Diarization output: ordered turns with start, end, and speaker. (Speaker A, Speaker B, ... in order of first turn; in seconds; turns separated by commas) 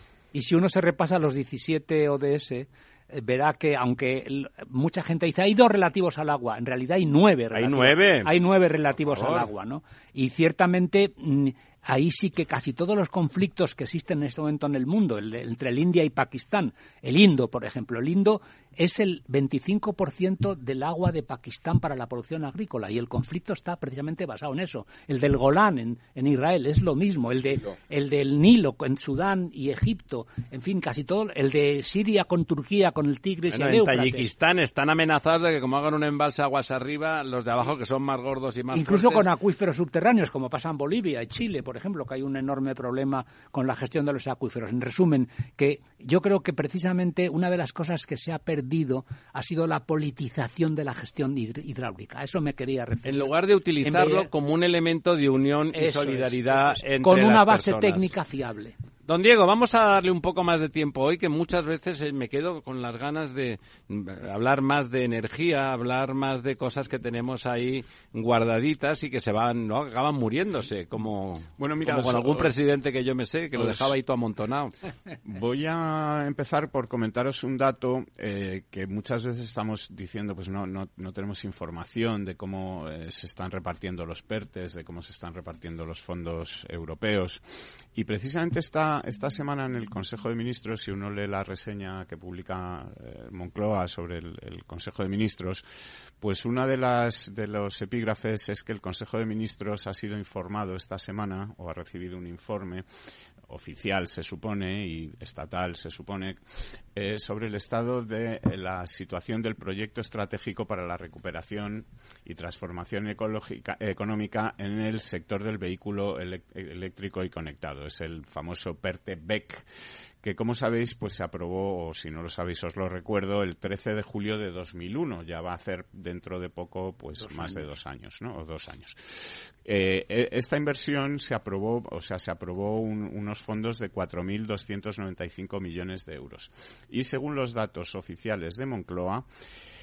Speaker A: 0.3-34.3, Speaker B: 7.5-8.3, Speaker B: 8.9-9.5, Speaker B: 33.5-39.3, Speaker A: 38.7-54.3, Speaker B: 53.0-58.1, Speaker A: 55.7-58.7, Speaker B: 59.0-74.7, Speaker C: 71.6-72.5, Speaker C: 73.5-73.9, Speaker C: 75.2-87.4, Speaker C: 87.9-95.6, Speaker C: 96.2-102.8, Speaker C: 103.5-106.4, Speaker C: 106.9-119.7, Speaker C: 120.2-129.0, Speaker A: 127.3-127.7, Speaker C: 129.6-139.3